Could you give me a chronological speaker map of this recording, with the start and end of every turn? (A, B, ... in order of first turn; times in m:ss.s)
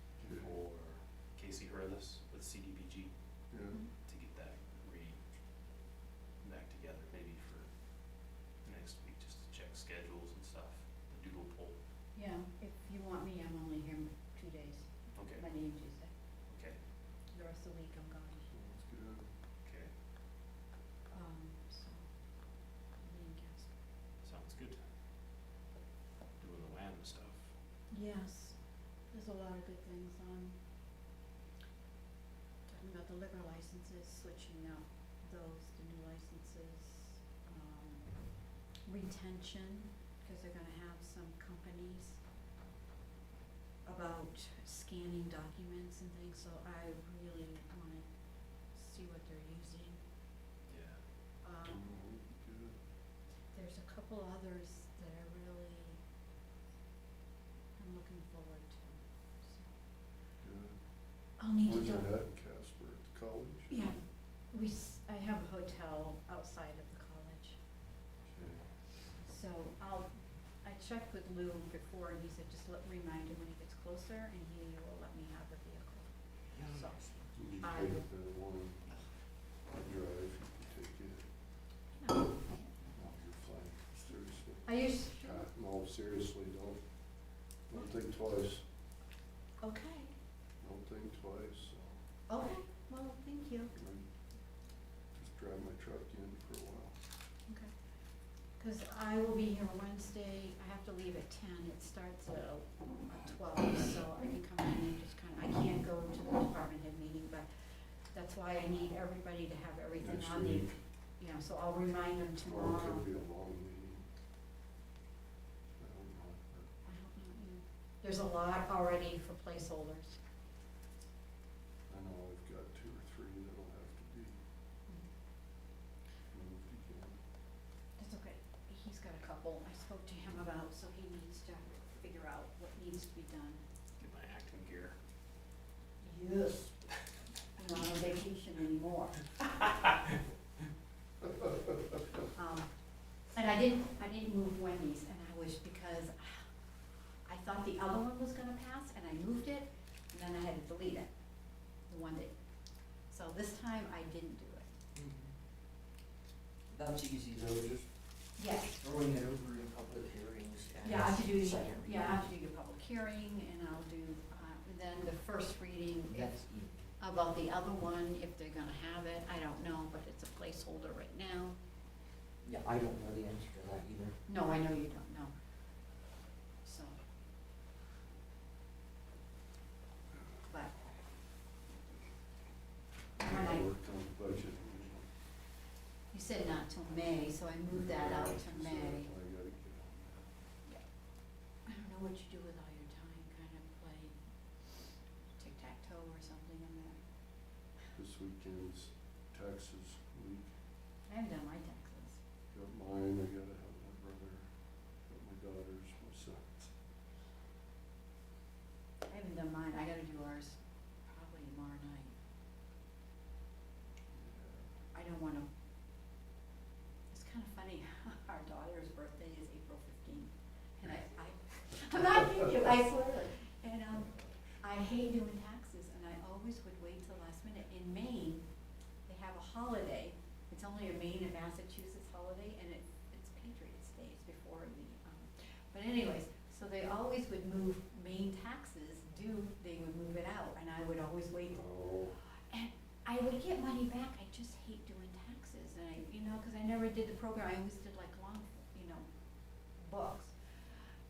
0:00.2-0:00.5 A
0:00.2-0:03.1 B
0:03.5-0:03.8 A
0:04.0-0:05.2 B
0:06.4-0:11.8 B
0:12.1-0:16.1 C
0:15.1-0:15.4 B
0:16.5-0:16.8 B
0:17.3-0:18.5 C
0:18.5-0:19.3 A
0:19.6-0:19.9 B
0:21.1-0:22.0 C
0:23.0-0:23.7 C
0:24.2-0:24.8 B
0:26.4-0:27.5 B
0:27.9-0:28.6 C
0:29.1-0:30.6 C
0:32.7-0:38.3 C
0:38.8-0:42.2 C
0:43.8-0:48.1 C
0:48.7-0:50.0 C
0:50.7-0:51.0 B
0:51.4-0:51.8 C
0:51.6-0:52.8 A
0:53.5-0:56.0 C
0:57.8-0:59.7 C
1:00.4-1:00.8 A
1:01.4-1:02.1 C
1:01.6-1:03.8 A
1:03.7-1:04.0 C
1:04.5-1:07.6 C
1:08.2-1:08.6 A
1:09.2-1:16.1 C
1:16.5-1:17.3 D
1:16.6-1:17.0 C
1:17.4-1:18.9 A
1:17.6-1:18.0 C
1:19.7-1:21.2 A
1:21.9-1:22.7 C
1:22.9-1:26.8 A
1:24.6-1:25.5 C
1:27.7-1:28.6 A
1:29.6-1:30.1 C
1:30.6-1:32.0 A
1:32.3-1:33.7 C
1:33.7-1:34.1 A
1:35.1-1:37.0 A
1:38.6-1:47.5 C
1:48.1-1:53.0 C
1:50.0-1:50.8 A
1:52.4-1:54.1 A
1:55.8-1:56.7 A
1:56.8-2:00.2 C
2:01.9-2:04.4 A
2:06.3-2:07.2 A
2:08.0-2:13.6 C
2:14.0-2:15.0 B
2:16.0-2:16.8 C
2:17.5-2:19.4 C
2:22.3-2:22.7 C
2:23.3-2:26.4 C
2:27.2-2:31.1 C
2:31.9-2:32.3 C
2:33.1-2:34.7 C
2:34.9-2:35.3 D
2:36.7-2:38.0 D
2:38.4-2:38.8 C
2:38.8-2:42.3 D
2:40.8-2:51.6 C
2:46.1-2:46.9 D
2:52.4-2:54.2 D
2:54.3-2:55.3 C
2:56.6-2:57.0 C
3:00.5-3:00.8 C
3:03.2-3:03.7 C
3:03.2-3:05.1 A
3:06.1-3:09.1 C
3:07.7-3:10.2 A
3:11.6-3:14.2 C
3:15.4-3:17.0 C
3:18.0-3:20.5 A
3:21.1-3:22.2 C
3:22.5-3:24.5 A
3:25.0-3:26.7 A
3:29.0-3:32.1 C
3:34.1-3:34.7 A
3:34.9-3:35.5 C
3:37.1-3:48.4 C
3:49.0-4:01.6 C
4:01.5-4:02.2 A
4:02.5-4:09.0 C
4:09.8-4:10.4 C